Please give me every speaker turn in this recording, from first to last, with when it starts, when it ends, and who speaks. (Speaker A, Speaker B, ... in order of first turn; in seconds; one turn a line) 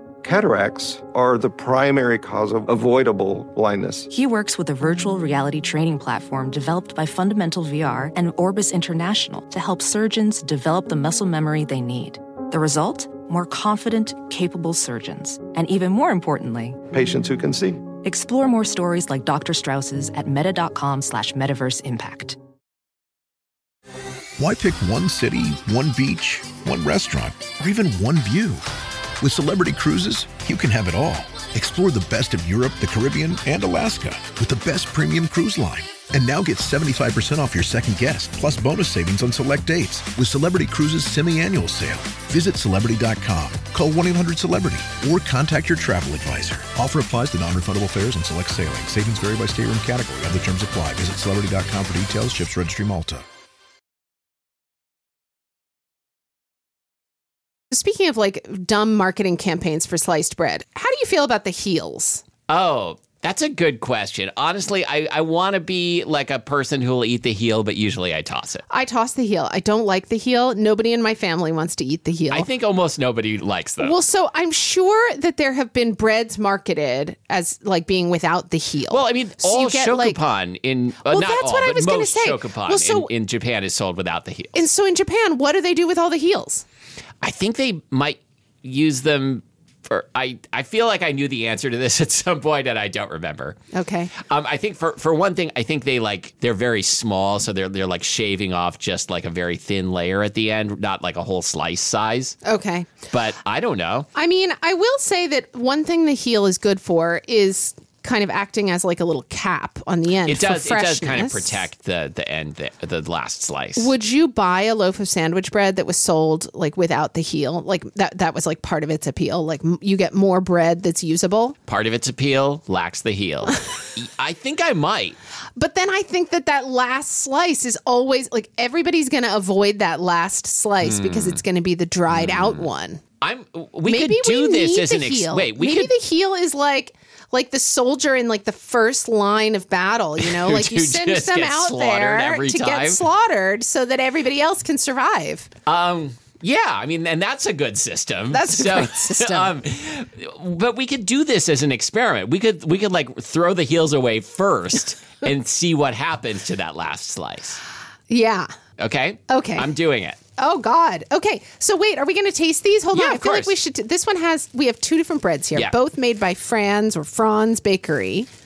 Speaker A: 0.2-4.1
Speaker B: 4.1-16.8
Speaker A: 16.9-17.9
Speaker B: 18.0-22.4
Speaker C: 24.4-28.6
Speaker C: 29.2-53.2
Speaker D: 57.7-62.2
Speaker E: 62.5-68.6
Speaker D: 68.7-72.5
Speaker E: 72.3-74.0
Speaker D: 73.8-80.2
Speaker E: 78.9-84.6
Speaker D: 81.0-83.1
Speaker D: 84.5-86.6
Speaker E: 87.2-93.6
Speaker D: 93.7-94.1
Speaker E: 94.1-102.4
Speaker D: 102.4-102.9
Speaker E: 103.1-104.1
Speaker D: 104.1-111.6
Speaker E: 110.3-113.9
Speaker D: 113.8-121.5
Speaker E: 121.7-125.2
Speaker D: 125.6-133.0
Speaker E: 130.8-131.4
Speaker E: 132.1-132.6
Speaker E: 133.2-135.9
Speaker D: 133.9-145.5
Speaker E: 140.2-143.0
Speaker E: 145.7-157.6
Speaker D: 148.3-149.5
Speaker D: 158.1-158.5
Speaker E: 158.8-160.2
Speaker D: 159.3-159.7
Speaker D: 160.4-168.3
Speaker E: 162.9-163.5